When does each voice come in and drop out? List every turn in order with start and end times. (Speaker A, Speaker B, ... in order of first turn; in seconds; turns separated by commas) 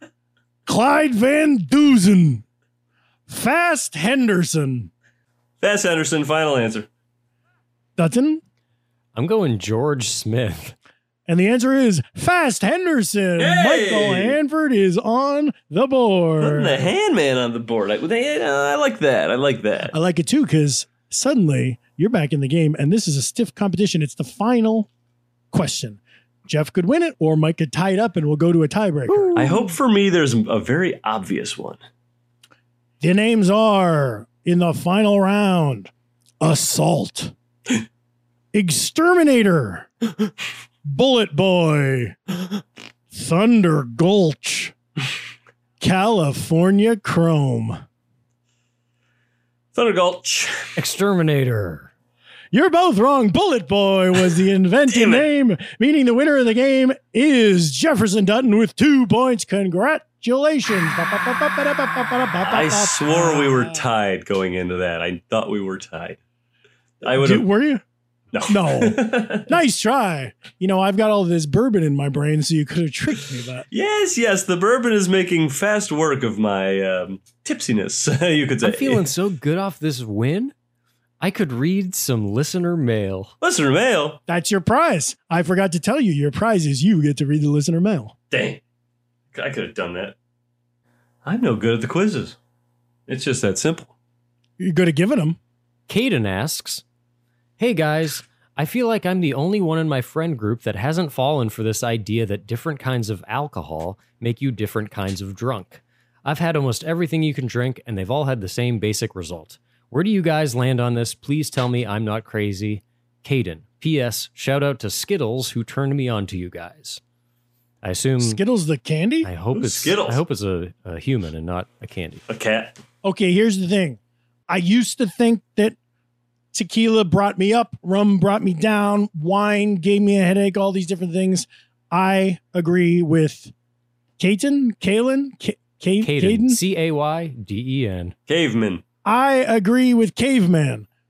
Speaker A: 0.7-2.4, Speaker A: 3.3-4.9, Speaker B: 5.6-6.9, Speaker A: 8.0-8.4, Speaker C: 9.2-10.8, Speaker A: 11.3-16.9, Speaker B: 13.4-14.4, Speaker B: 16.4-19.9, Speaker A: 19.9-24.9, Speaker A: 25.5-29.6, Speaker C: 29.1-29.5, Speaker B: 29.4-31.8, Speaker A: 33.0-37.3, Speaker A: 38.5-39.9, Speaker A: 40.9-42.6, Speaker A: 43.1-44.7, Speaker A: 45.8-47.8, Speaker B: 49.7-50.7, Speaker C: 50.8-51.9, Speaker A: 52.5-63.8, Speaker B: 54.9-55.3, Speaker B: 62.4-66.2, Speaker B: 67.0-67.5, Speaker A: 67.0-67.8, Speaker B: 68.3-69.5, Speaker A: 68.5-73.7, Speaker B: 73.7-79.1, Speaker C: 78.6-80.5, Speaker C: 81.2-83.3, Speaker B: 83.4-84.2, Speaker A: 84.3-88.1, Speaker B: 88.3-88.6, Speaker B: 89.3-90.2, Speaker B: 91.2-92.4, Speaker B: 93.1-93.9, Speaker A: 94.6-95.4, Speaker C: 95.9-96.8, Speaker C: 97.6-117.0, Speaker C: 117.8-118.4, Speaker A: 118.2-119.3, Speaker C: 119.2-122.2, Speaker B: 119.5-120.2, Speaker B: 122.3-122.7, Speaker A: 123.0-125.8, Speaker A: 126.5-133.5, Speaker A: 134.2-136.6, Speaker C: 136.0-138.1, Speaker B: 138.3-138.8, Speaker A: 139.1-140.9